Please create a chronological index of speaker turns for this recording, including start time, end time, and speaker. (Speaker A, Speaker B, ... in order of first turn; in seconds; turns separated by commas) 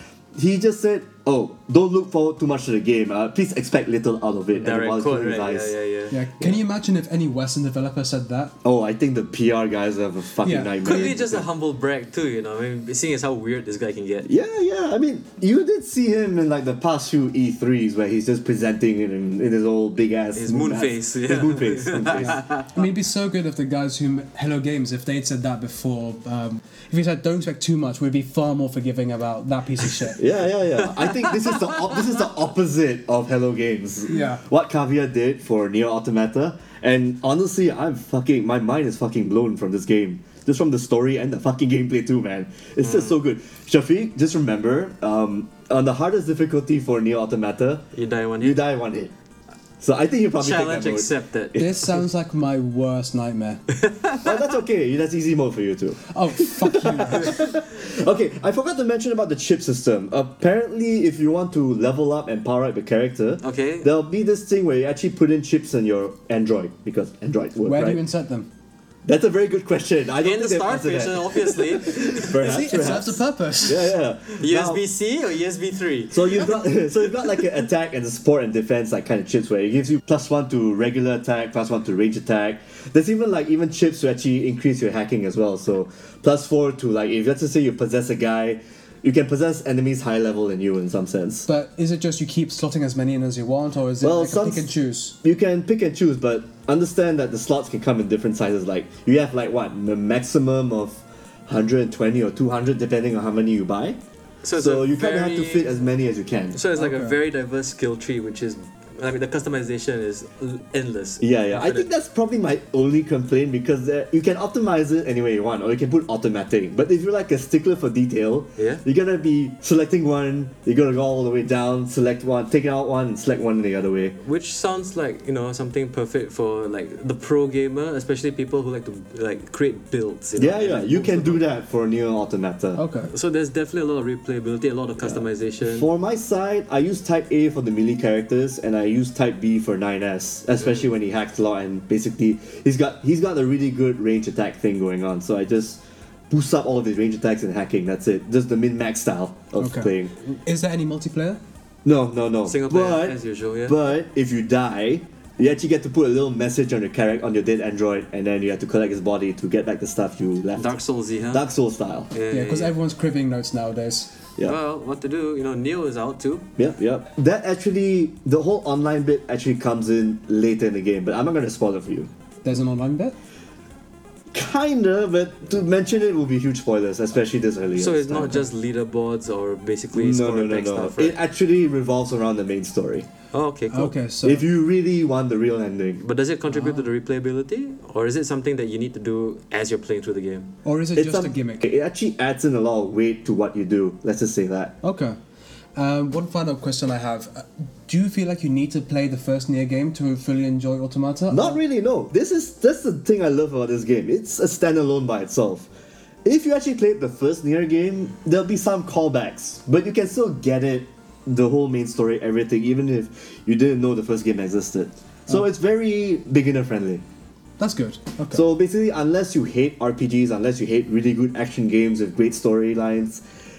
Speaker A: 0.3-5.7, Speaker B: 4.5-6.2, Speaker C: 6.1-8.6, Speaker A: 8.6-11.5, Speaker C: 10.4-11.1, Speaker B: 10.8-14.3, Speaker A: 14.3-22.4, Speaker B: 20.4-22.7, Speaker C: 22.2-30.2, Speaker A: 30.2-47.9, Speaker B: 31.0-32.0, Speaker C: 34.1-34.4, Speaker B: 42.8-43.1, Speaker B: 47.9-48.6, Speaker A: 48.4-49.1, Speaker A: 49.8-51.7, Speaker B: 50.4-51.7, Speaker C: 51.6-53.6, Speaker B: 53.8-54.3, Speaker A: 54.2-68.0, Speaker C: 56.1-57.4, Speaker B: 63.4-63.9, Speaker C: 67.7-68.5, Speaker A: 69.0-74.8, Speaker B: 70.2-72.8, Speaker C: 72.3-74.0, Speaker B: 74.4-77.4, Speaker A: 76.1-91.5, Speaker C: 91.5-95.2, Speaker A: 94.0-104.0, Speaker B: 104.4-105.7, Speaker A: 104.6-106.6, Speaker B: 106.5-111.9, Speaker C: 106.8-107.1, Speaker A: 111.2-124.2, Speaker B: 118.6-118.8, Speaker B: 124.2-131.4, Speaker A: 130.4-132.8, Speaker C: 132.8-133.1, Speaker B: 133.1-135.9, Speaker A: 135.0-150.1, Speaker C: 149.6-151.4, Speaker A: 151.8-160.8, Speaker B: 152.5-153.8, Speaker B: 160.6-161.4, Speaker A: 161.3-162.1, Speaker B: 162.1-162.8, Speaker C: 162.3-164.1, Speaker B: 164.4-166.5, Speaker A: 166.6-172.1, Speaker C: 172.4-173.2, Speaker A: 174.3-178.4, Speaker B: 177.8-181.2, Speaker A: 179.9-183.1, Speaker B: 183.3-183.9, Speaker C: 183.7-184.5, Speaker A: 184.2-186.0, Speaker B: 186.0-190.5, Speaker C: 186.5-186.9, Speaker C: 190.7-191.6, Speaker A: 190.9-194.8, Speaker C: 194.8-195.2, Speaker C: 195.8-201.6, Speaker A: 201.3-205.7, Speaker A: 206.2-217.0, Speaker C: 217.6-218.5, Speaker A: 218.3-223.2